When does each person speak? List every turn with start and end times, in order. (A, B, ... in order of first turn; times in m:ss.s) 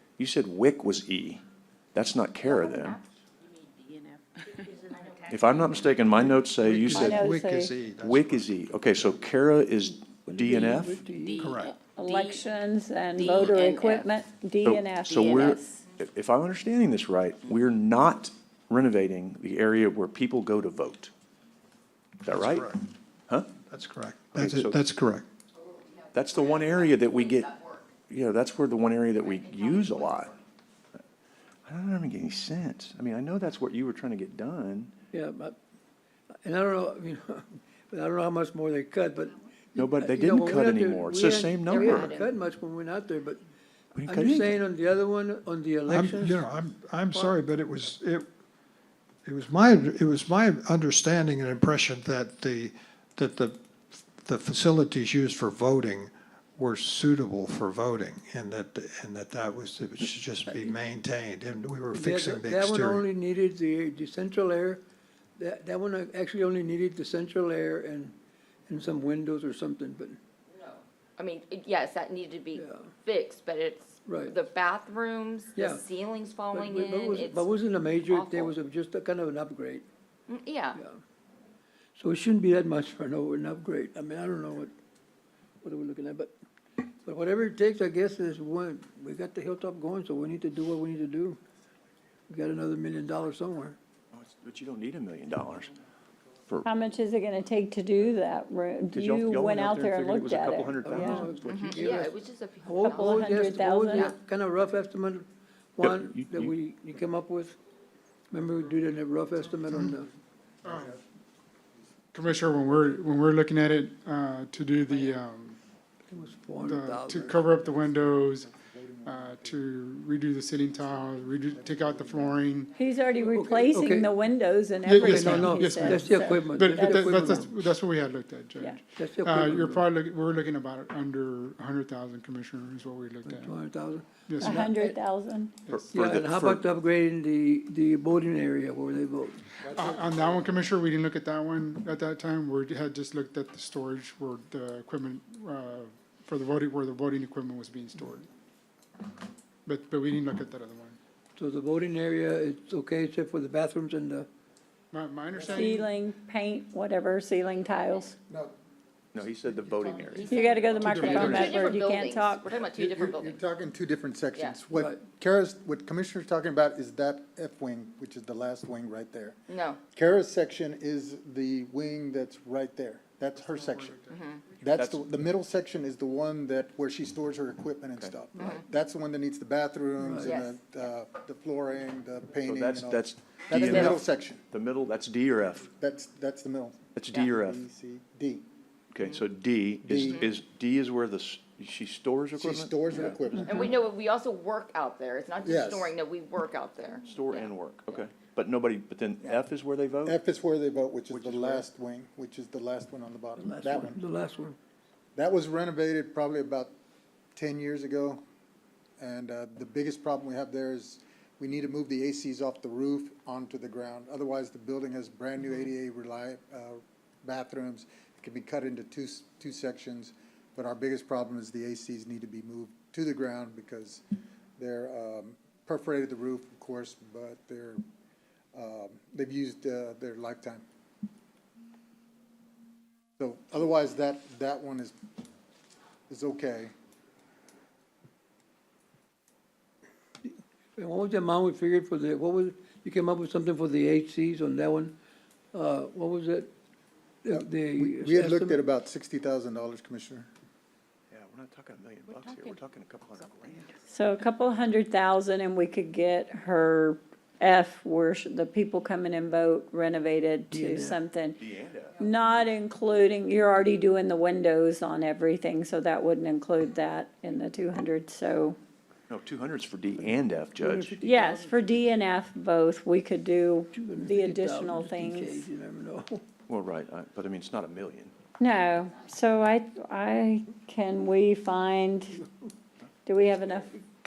0:00.2-0:01.4 A
0:01.9-0:03.0 A
0:02.4-0:03.0 B
0:04.9-0:05.4 B
0:05.3-0:07.2 A
0:06.6-0:08.6 C
0:06.9-0:07.7 D
0:07.9-0:11.0 A
0:10.3-0:11.5 E
0:11.2-0:12.5 B
0:11.4-0:11.7 C
0:11.9-0:15.8 D
0:13.2-0:14.1 B
0:14.6-0:21.1 A
0:15.0-0:15.7 B
0:22.2-0:22.7 A
0:22.3-0:22.8 C
0:23.6-0:25.2 C
0:24.3-0:24.8 A
0:26.1-0:30.3 A
0:26.3-0:26.7 B
0:27.5-0:27.8 B
0:29.2-0:30.3 B
0:31.6-0:34.9 A
0:35.1-0:35.6 E
0:36.4-0:43.4 E
0:39.7-0:42.1 A
0:41.7-0:42.3 B
0:43.9-0:44.6 A
0:44.0-0:46.4 E
0:45.9-0:48.3 C
0:49.2-1:03.0 C
1:01.9-1:04.8 E
1:05.4-1:08.1 E
1:08.7-1:10.2 E
1:10.5-1:18.6 B
1:12.5-1:12.9 E
1:14.0-1:14.4 E
1:15.6-1:15.8 E
1:16.5-1:19.8 E
1:20.3-1:20.8 B
1:20.8-1:21.0 E
1:22.0-1:24.7 E
1:25.6-1:26.3 E
1:26.9-1:31.4 E
1:32.3-1:33.8 E
1:34.1-1:35.7 A
1:36.6-1:41.2 D
1:38.9-1:41.8 A
1:40.8-1:47.6 E
1:41.4-1:44.1 B
1:42.8-1:44.2 D
1:45.8-1:46.5 A
1:48.3-1:50.1 E
1:50.6-1:51.0 F
1:50.7-1:51.0 G
1:51.8-1:52.7 G
1:52.1-1:55.6 F
1:56.1-1:57.4 E
1:56.6-1:58.5 F
1:57.1-1:59.7 G
1:59.0-2:02.8 F
2:00.6-2:02.4 G
2:02.8-2:07.2 D
2:03.1-2:04.1 E
2:04.8-2:13.6 F
2:05.0-2:07.6 E
2:09.0-2:09.9 E
2:13.2-2:15.0 E
2:14.3-2:14.7 F
2:14.4-2:15.5 D
2:15.7-2:15.9 F
2:15.7-2:16.6 A
2:15.9-2:19.6 E
2:19.6-2:20.7 G
2:19.7-2:28.3 F
2:29.6-2:31.0 F
2:31.4-2:34.3 E
2:34.9-2:35.9 F
2:35.3-2:35.8 G
2:35.5-2:38.2 D
2:38.3-2:38.5 G
2:39.1-2:40.3 A
2:39.1-2:41.7 G
2:40.1-2:43.4 B
2:40.3-2:42.5 D
2:40.9-2:41.3 F
2:41.1-2:41.6 A
2:42.5-2:54.0 G
2:44.4-2:44.6 B
2:44.7-2:45.0 E
2:49.5-2:49.8 B
2:53.3-2:54.2 F
2:54.1-2:54.4 B
2:54.6-3:04.4 G
2:54.6-2:55.1 A
2:58.4-2:58.6 B
3:00.0-3:00.4 E
3:00.2-3:00.6 B
3:02.4-3:05.7 A
3:05.7-3:08.4 G
3:06.9-3:07.6 A
3:08.9-3:13.6 A
3:09.8-3:10.3 G
3:12.3-3:13.8 G
3:13.4-3:17.5 B
3:15.4-3:15.9 G
3:17.0-3:20.2 A
3:20.0-3:24.0 G
3:21.1-3:21.6 A
3:23.4-3:24.6 E
3:25.2-3:26.7 G
3:27.3-3:28.2 G
3:29.0-3:44.0 G
3:44.6-3:47.8 G
3:48.5-3:50.6 G
3:53.2-3:54.9 G
3:56.1-3:56.7 G
4:00.2-4:05.0 E
4:05.5-4:06.5 E
4:07.2-4:08.6 E
4:07.7-4:10.3 G
4:11.1-4:13.7 A
4:13.9-4:21.4 D
4:20.5-4:21.0 E
4:21.4-4:22.0 A
4:22.0-4:28.6 D
4:29.1-4:31.0 A
4:30.6-4:31.9 E
4:31.0-4:35.5 D
4:33.7-4:36.2 E
4:36.5-4:38.1 A
4:38.4-4:42.2 D
4:43.0-4:43.8 D